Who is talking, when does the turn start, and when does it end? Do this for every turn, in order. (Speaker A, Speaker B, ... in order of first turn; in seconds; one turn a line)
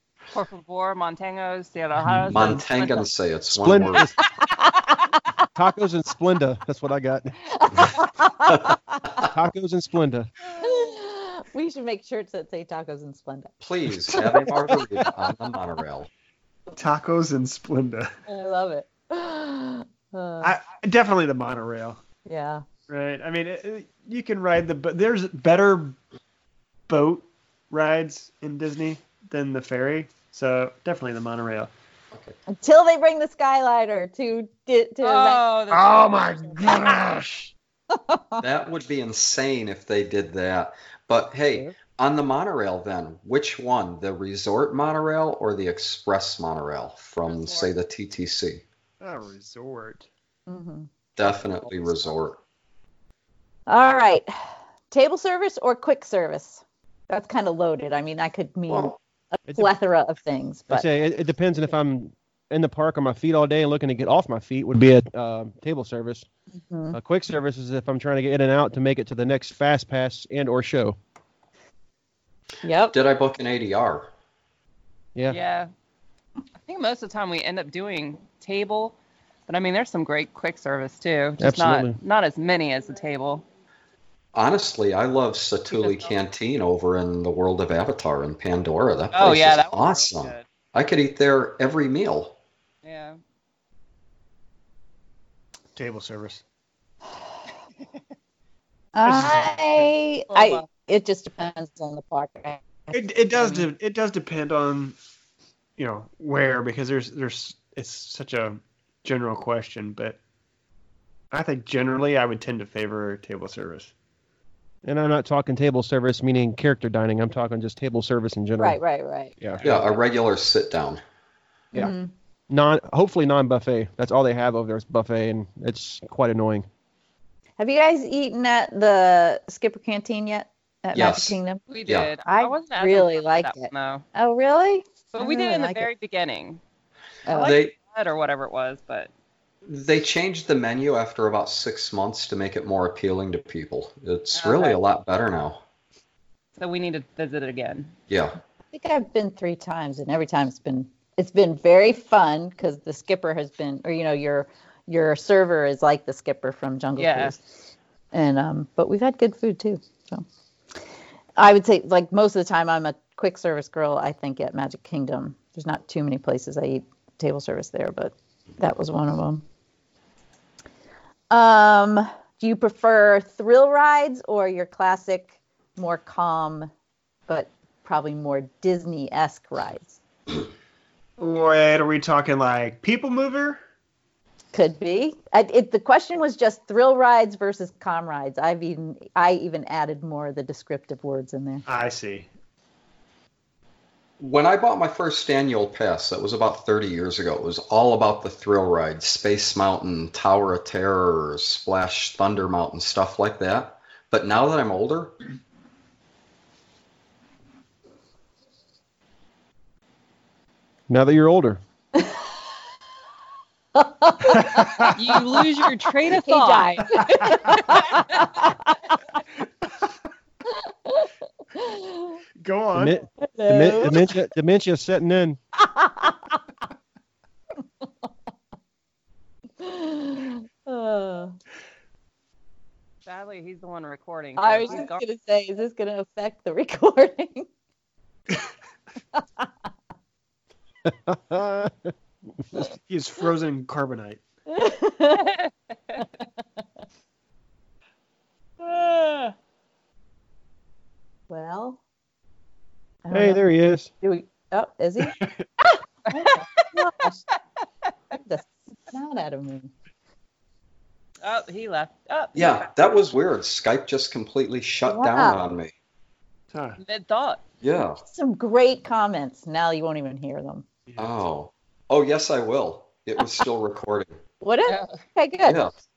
Speaker A: 0.3-3.1
Speaker B: 2.1-2.5
Speaker C: 2.3-4.1
Speaker B: 3.5-4.2
Speaker D: 4.2-5.5
Speaker B: 5.6-8.0
Speaker D: 7.5-9.1
Speaker B: 9.2-10.3
Speaker D: 10.5-13.5
Speaker C: 13.6-16.1
Speaker D: 14.1-14.5
Speaker E: 16.8-18.1
Speaker D: 18.3-20.5
Speaker E: 20.4-22.0
Speaker D: 22.3-22.6
Speaker E: 22.9-26.0
Speaker E: 26.9-31.7
Speaker D: 32.5-35.4
Speaker A: 35.0-36.9
Speaker E: 35.7-37.5
Speaker D: 37.9-38.4
Speaker C: 38.4-48.6
Speaker A: 47.2-47.7
Speaker E: 49.0-50.1
Speaker D: 50.5-50.9
Speaker C: 51.1-52.4
Speaker D: 53.7-54.3
Speaker D: 54.9-60.9
Speaker C: 58.7-59.0
Speaker B: 60.7-66.3
Speaker D: 66.7-67.0
Speaker B: 66.9-71.0
Speaker D: 72.6-72.9
Speaker C: 72.9-74.1
Speaker A: 75.3-75.7
Speaker A: 76.6-78.9
Speaker A: 79.5-83.4
Speaker B: 81.4-82.0
Speaker C: 84.3-92.3
Speaker A: 85.7-86.2
Speaker A: 89.1-90.4
Speaker A: 92.8-93.2
Speaker E: 95.8-96.4
Speaker D: 98.9-103.6
Speaker E: 99.0-99.8
Speaker A: 100.3-100.7
Speaker E: 102.9-105.0
Speaker E: 105.8-110.2
Speaker E: 111.3-113.9
Speaker B: 114.8-118.8
Speaker D: 118.6-119.3
Speaker C: 119.6-121.0
Speaker D: 121.7-122.1
Speaker B: 122.5-126.7
Speaker D: 127.6-131.6
Speaker C: 130.9-132.1
Speaker A: 131.7-134.1
Speaker D: 132.3-135.9
Speaker A: 135.1-136.6
Speaker D: 137.3-137.6
Speaker A: 137.3-139.1
Speaker C: 137.3-137.7
Speaker C: 139.6-145.6
Speaker A: 144.3-144.8
Speaker A: 146.6-147.9
Speaker C: 148.1-148.4
Speaker D: 148.7-157.4
Speaker A: 157.0-157.3
Speaker D: 158.1-160.2
Speaker D: 161.4-169.4
Speaker D: 171.3-176.7
Speaker D: 177.3-180.0
Speaker E: 181.2-183.6
Speaker D: 184.5-191.6
Speaker E: 191.7-192.3
Speaker C: 194.2-205.1
Speaker B: 210.9-211.6
Speaker D: 211.9-212.2
Speaker D: 213.8-215.1
Speaker E: 214.4-214.9
Speaker A: 214.9-218.0
Speaker D: 216.1-218.8
Speaker D: 220.5-222.2
Speaker E: 222.4-223.0
Speaker B: 222.8-225.4
Speaker D: 223.2-224.2
Speaker D: 225.6-226.4
Speaker D: 229.6-231.3
Speaker A: 233.1-235.0
Speaker D: 234.4-237.5
Speaker D: 239.1-239.5
Speaker B: 240.9-241.9
Speaker E: 242.7-244.2
Speaker D: 244.5-245.4
Speaker A: 248.6-249.3
Speaker D: 251.3-251.8
Speaker D: 253.1-253.5
Speaker B: 253.1-253.9
Speaker D: 254.0-257.2
Speaker D: 258.1-259.7
Speaker A: 261.2-262.7
Speaker C: 262.4-265.7
Speaker D: 264.9-265.4
Speaker E: 266.5-266.8
Speaker A: 266.8-267.4
Speaker C: 267.6-268.0
Speaker D: 268.1-270.6
Speaker C: 271.0-274.2
Speaker D: 274.4-275.6
Speaker A: 274.7-274.9
Speaker C: 275.4-275.7